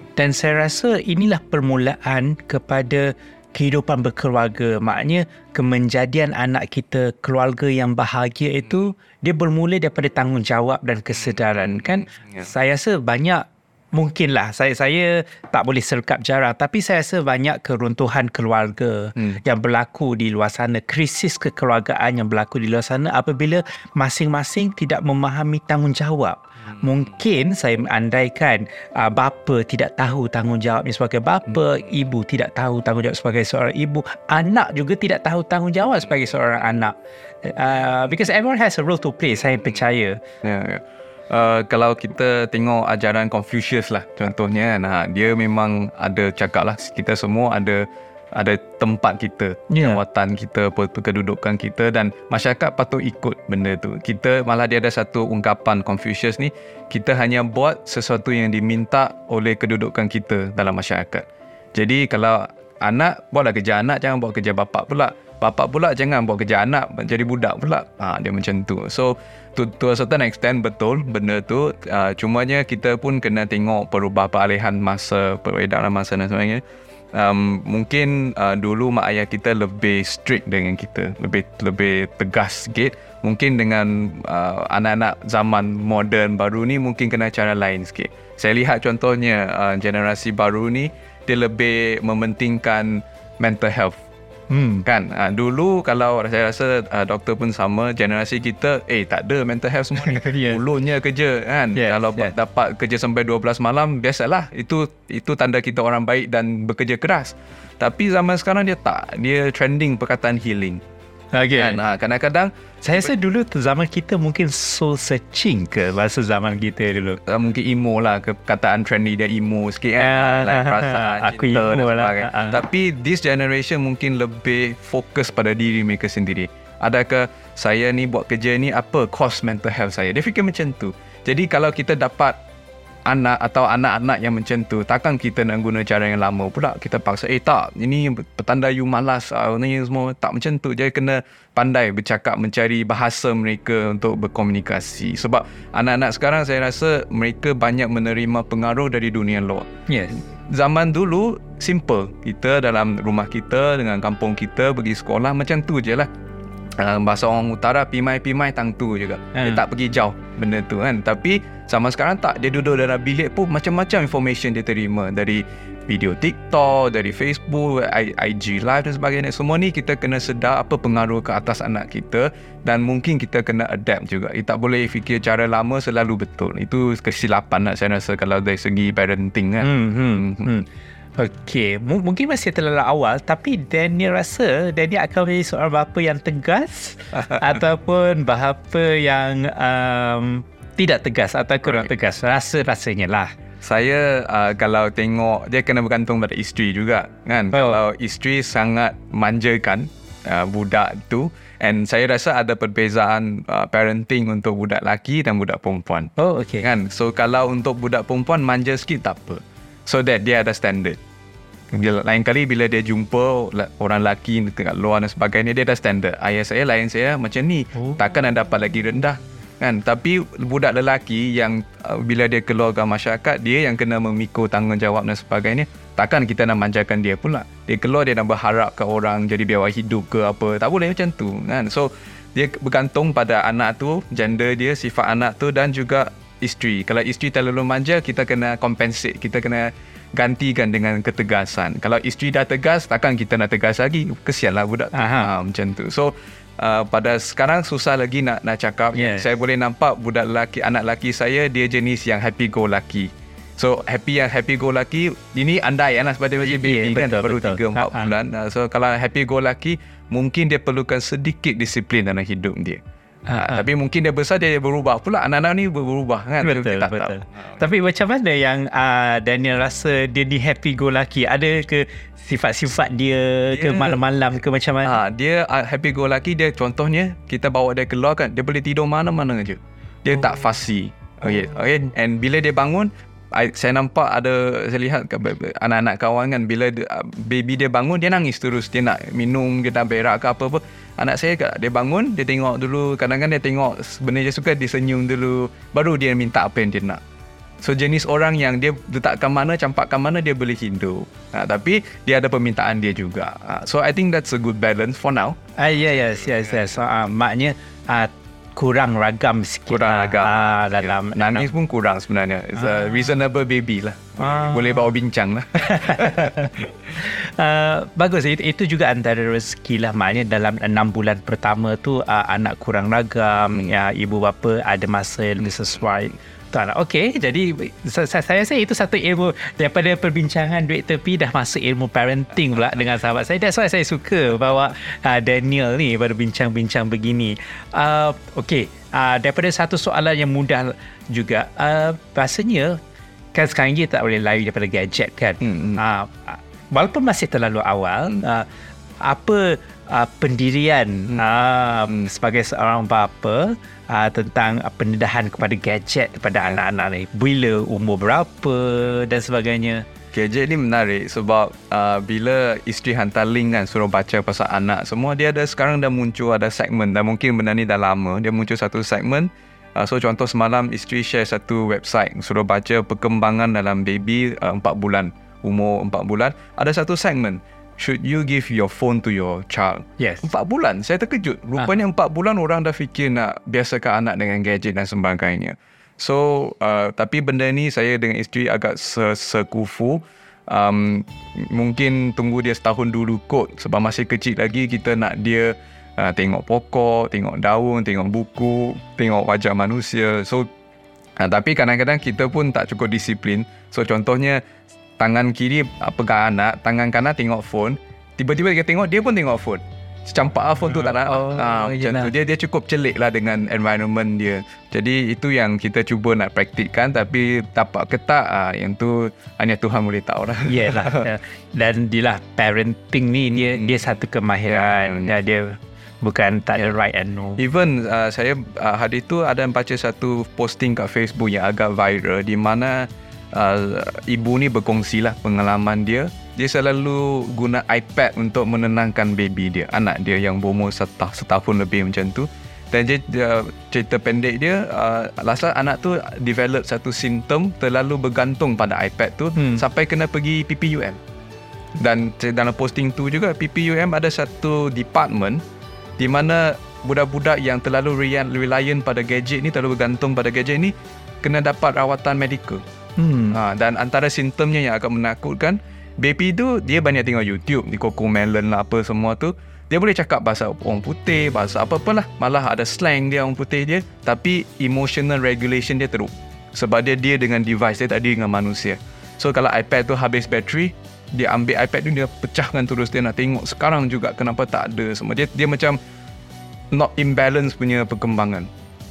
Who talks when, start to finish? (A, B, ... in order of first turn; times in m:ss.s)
0:00.2-0:40.2 A
0:11.7-0:12.4 B
0:40.4-1:16.6 B
0:49.7-0:50.0 A
1:17.1-1:34.0 B
1:34.5-1:34.8 A
1:34.8-1:50.8 B
1:40.0-1:40.6 A
1:41.7-1:42.3 A
1:51.3-1:51.8 A
1:51.6-1:53.1 B
1:52.8-1:57.2 A
1:57.2-2:12.4 B
2:00.0-2:02.6 A
2:13.0-2:29.7 B
2:29.9-2:30.2 A
2:30.4-2:36.1 B
2:36.8-3:00.5 B
2:39.3-2:39.6 A
2:59.6-3:13.3 A
3:13.6-3:31.0 B
3:17.5-3:17.8 A
3:26.2-3:26.7 A
3:31.7-4:22.8 B
4:04.9-4:05.3 A
4:08.9-4:09.2 A
4:16.4-4:18.1 A
4:23.3-4:23.6 A
4:23.4-4:27.6 B
4:26.4-4:34.9 A
4:33.5-4:34.0 B
4:34.8-4:57.0 B
4:57.6-5:05.4 B
5:05.6-5:11.5 A
5:09.7-5:16.7 B
5:14.2-5:14.8 A
5:15.6-5:42.8 A
5:43.3-5:48.5 A
5:45.4-5:45.8 B
5:49.0-5:59.8 A
6:00.1-6:40.5 B
6:20.0-6:20.3 A
6:41.2-6:44.4 B
6:45.0-7:01.1 B
6:51.1-6:52.1 A
7:00.5-7:07.4 A
7:03.3-7:03.7 B
7:04.5-7:05.1 B
7:07.4-7:31.0 B
7:29.4-7:29.6 A
7:31.8-7:35.4 B
7:36.0-7:42.6 B
7:43.0-7:43.4 A
7:43.3-8:05.8 B
8:06.7-8:08.5 B